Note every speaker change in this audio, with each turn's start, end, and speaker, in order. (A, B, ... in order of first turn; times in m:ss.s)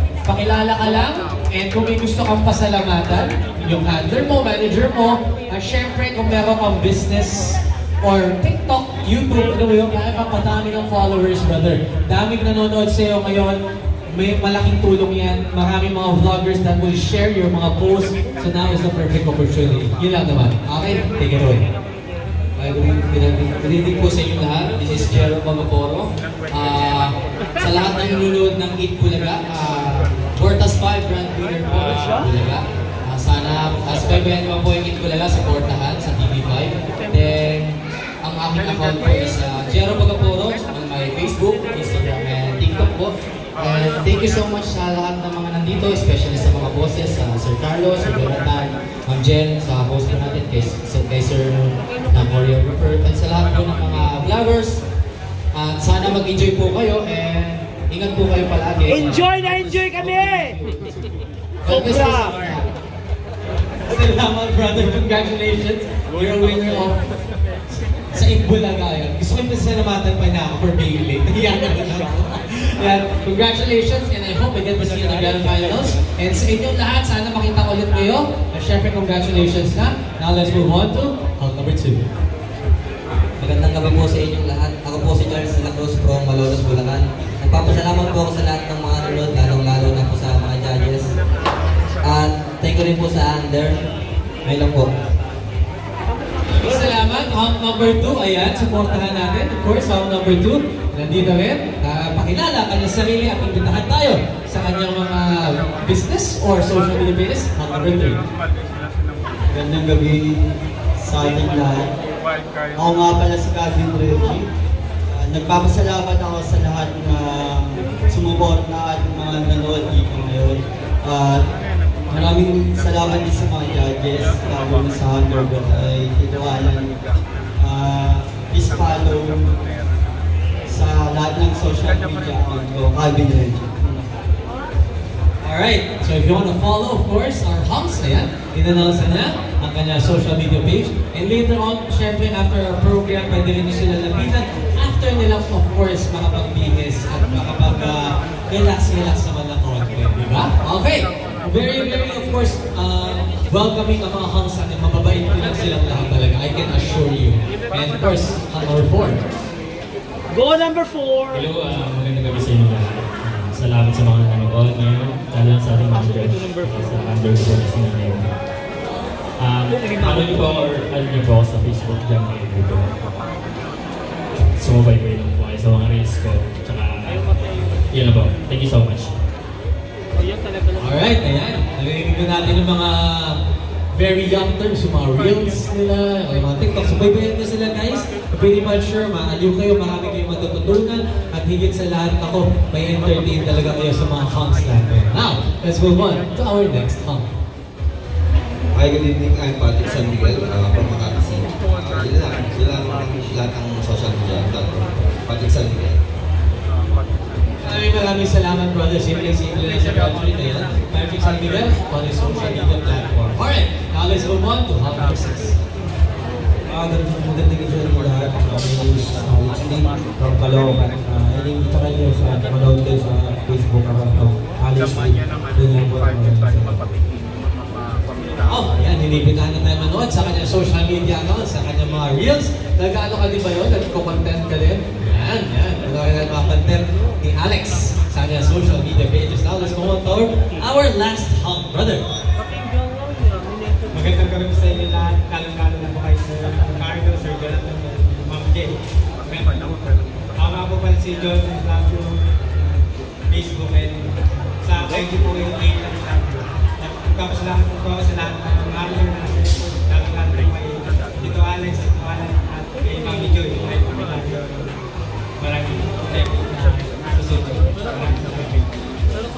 0:00.2-0:13.6 A
0:14.1-0:21.6 A
0:22.6-0:54.8 B
0:55.5-1:00.9 B
0:59.0-1:00.4 C
1:01.6-1:02.7 B
1:01.7-1:02.3 C
1:03.8-1:07.0 A
1:08.1-1:22.0 A
1:23.4-1:31.1 D
1:32.0-1:33.8 D
1:34.4-1:34.9 D
1:36.6-1:48.2 A
1:49.5-1:51.9 E
1:52.7-1:54.4 E
1:55.1-2:01.4 E
2:02.1-2:06.9 E
2:07.6-2:09.6 E
2:10.6-2:14.0 E
2:15.4-2:39.2 A
2:40.3-2:41.4 C
2:41.3-2:48.3 F
2:49.4-2:52.9 F
2:54.5-2:57.4 F
2:57.9-2:59.1 F
3:00.8-3:03.4 A
3:03.9-3:17.2 A
3:18.7-3:26.0 G
3:27.6-3:35.6 A
3:36.7-3:46.8 E
3:48.4-4:02.0 A
4:03.9-4:08.7 H
4:09.2-4:09.6 H
4:10.4-4:12.7 H
4:13.3-4:14.1 H
4:14.6-4:24.7 H
4:25.4-4:28.6 H